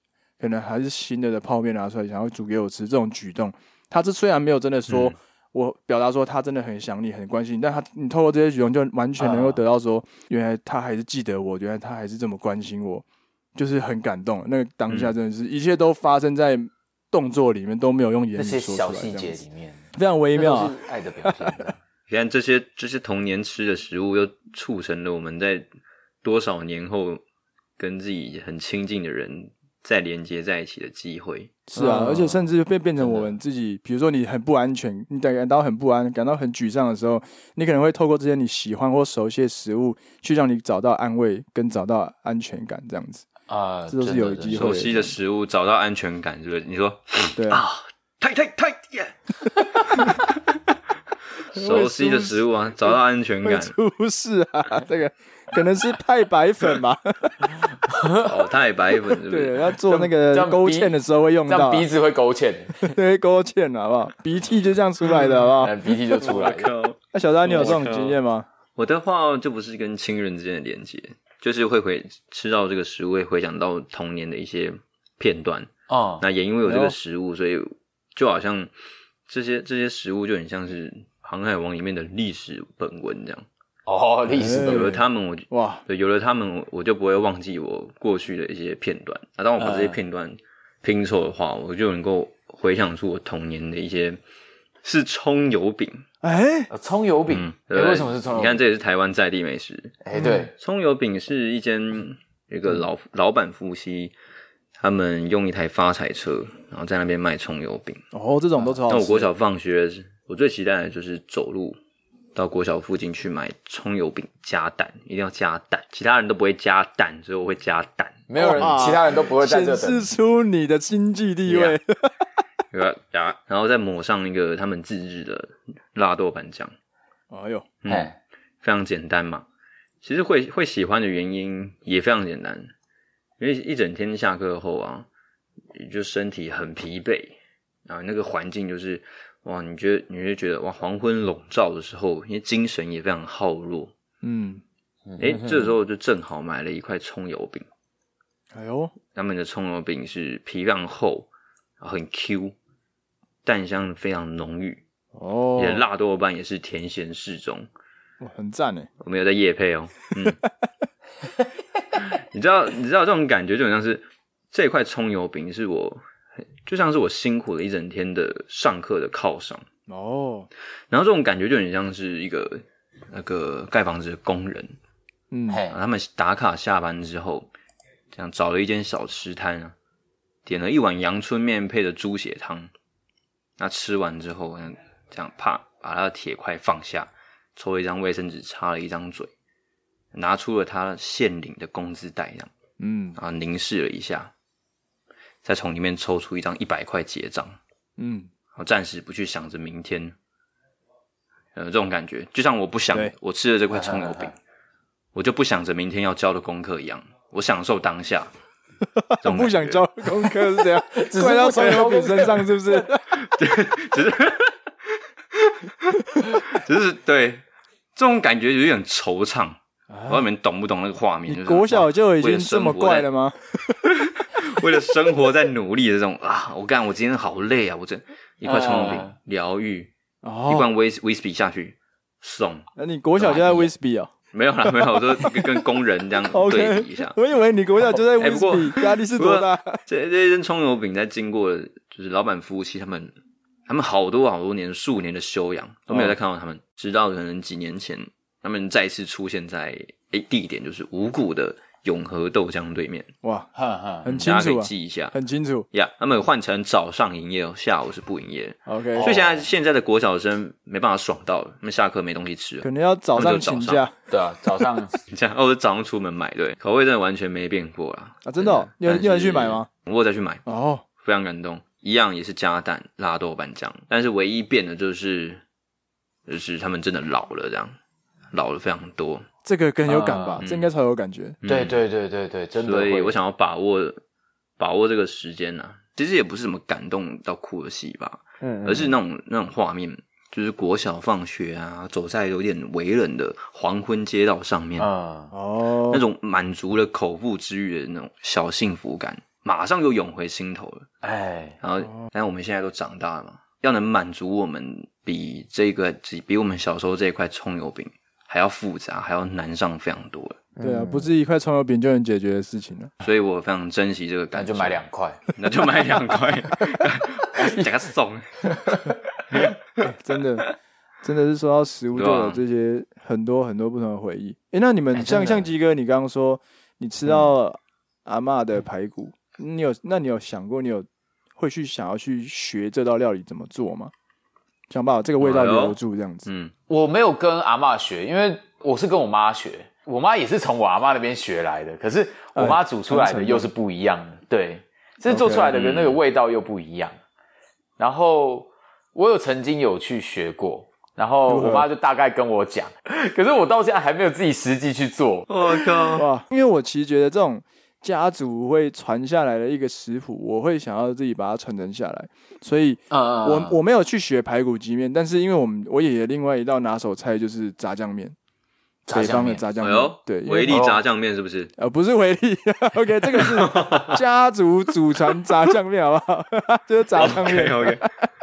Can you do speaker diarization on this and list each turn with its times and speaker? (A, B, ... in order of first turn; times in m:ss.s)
0:00.4-0:13.0 A
0:04.9-0:05.1 B
0:09.2-0:09.6 C
0:13.6-0:19.4 A
0:14.9-0:15.1 B
0:18.4-0:21.8 C
0:19.9-0:20.7 A
0:21.2-0:21.6 A
0:22.1-0:25.6 B
0:26.2-0:27.2 B
0:27.8-0:31.7 B
0:31.7-0:43.2 A
0:31.7-0:33.4 C
0:43.5-0:44.6 C
0:43.9-0:45.1 A
0:44.5-0:49.2 B
0:47.4-0:47.6 A
0:49.8-0:50.2 B
0:51.5-0:53.8 B
0:51.6-0:57.5 A
0:57.9-0:58.3 C
0:58.2-0:59.6 B
0:59.3-1:01.9 A
0:59.9-1:00.9 C
1:01.5-1:02.9 C
1:02.8-1:05.7 A
1:05.6-1:06.7 C
1:06.2-1:08.2 B
1:07.1-1:08.5 A
1:08.8-1:15.7 B
1:15.9-1:16.2 C
1:16.2-1:18.7 B
1:16.6-1:16.9 A
1:19.3-1:23.4 B
1:23.9-1:24.9 C
1:24.3-1:25.8 A
1:24.6-1:34.2 B
1:29.6-1:30.0 C
1:34.8-1:36.0 B
1:36.2-1:36.7 A
1:36.7-1:38.6 C
1:37.3-1:40.0 B
1:40.0-1:40.5 C
1:40.2-1:40.4 A
1:40.6-1:44.1 B
1:44.8-1:48.0 B
1:48.1-1:49.3 A
1:48.9-1:51.8 B
1:52.4-1:58.7 B
1:58.3-2:00.1 C
1:58.4-2:02.1 A
2:01.5-2:01.8 C
2:02.7-2:06.7 B
2:07.3-2:07.7 A
2:07.8-2:08.1 B
2:07.9-2:08.2 C
2:08.6-2:09.4 B
2:10.0-2:12.7 B
2:13.4-2:15.1 B
2:15.7-2:23.9 B
2:24.2-2:24.6 A
2:25.1-2:25.7 C
2:25.2-2:27.6 B
2:28.5-2:28.9 A
2:29.1-2:31.3 B
2:31.8-2:32.6 B
2:33.4-2:34.8 B
2:35.1-2:35.9 A
2:35.6-2:37.7 B
2:38.2-2:38.9 A
2:39.0-2:40.4 B
2:42.0-2:46.0 B
2:46.6-2:49.6 B
2:49.9-2:50.5 A
2:50.9-2:54.7 B
2:55.3-2:55.6 A
2:55.5-2:55.8 C
2:55.7-2:57.5 B
2:58.1-2:59.7 B
3:00.4-3:02.7 B
3:03.6-3:09.3 B
3:10.1-3:12.5 B
3:12.8-3:13.2 A
3:13.2-3:14.3 B
3:15.4-3:17.6 B
3:18.0-3:18.3 A
3:18.6-3:20.2 B
3:21.6-3:24.3 B
3:23.7-3:24.3 C
3:25.1-3:28.3 B
3:28.9-3:33.0 A
3:29.2-3:29.9 B
3:30.9-3:32.6 C
3:33.1-3:34.6 B
3:35.4-3:37.4 B
3:38.0-3:43.1 B
3:39.9-3:40.3 A
3:41.3-3:43.8 A
3:43.9-3:49.9 B
3:48.4-3:49.1 C
3:50.2-3:50.7 A
3:50.4-3:52.7 B
3:52.8-3:54.1 A
3:53.2-3:53.7 C
3:54.3-3:57.2 B
3:54.6-3:55.7 A
3:56.3-3:59.8 A
3:58.2-4:03.1 B
4:03.7-4:13.1 B
4:05.9-4:06.2 A
4:13.2-4:13.5 A
4:13.6-4:14.1 C
4:14.0-4:15.7 A
4:14.0-4:15.1 B
4:15.7-4:23.8 B
4:18.7-4:19.1 A
4:19.0-4:19.5 C
4:22.6-4:24.0 A
4:24.1-4:25.0 C
4:25.1-4:30.4 B
4:28.2-4:29.7 A
4:30.4-4:30.8 A
4:31.0-4:35.4 B
4:36.3-4:37.8 B
4:38.3-4:39.3 B
4:39.4-4:41.4 A
4:39.9-4:40.4 C
4:40.4-4:40.7 B
4:41.4-4:41.8 B
4:41.4-4:43.1 C
4:42.6-4:44.0 B
4:44.6-4:54.9 B
4:48.4-4:49.0 C
4:54.8-4:55.3 C
4:55.3-4:56.0 A
4:55.9-5:00.9 B
5:01.0-5:01.6 C
5:01.6-5:10.4 B
5:10.6-5:11.1 C
5:10.6-5:12.9 A
5:13.0-5:14.8 B
5:14.3-5:15.2 C
5:15.3-5:18.8 B
5:17.3-5:17.6 C
5:18.5-5:19.5 C
5:19.8-5:20.5 A
5:21.0-5:33.9 A
5:22.0-5:22.4 B
5:24.9-5:25.5 C
5:34.7-5:36.3 A
5:35.2-5:36.5 B
5:36.7-5:46.9 C
5:42.3-5:43.5 A
5:45.1-5:45.5 A
5:45.5-5:46.0 B
5:47.8-5:55.3 C
5:51.3-5:51.7 A
5:55.3-5:56.0 B
5:55.8-6:08.2 A
6:02.9-6:03.6 C
6:08.9-6:09.4 C
6:08.9-6:10.7 A
6:09.6-6:11.5 B
6:10.5-6:10.8 C
6:11.6-6:18.1 A
6:13.2-6:14.0 B
6:17.0-6:17.8 B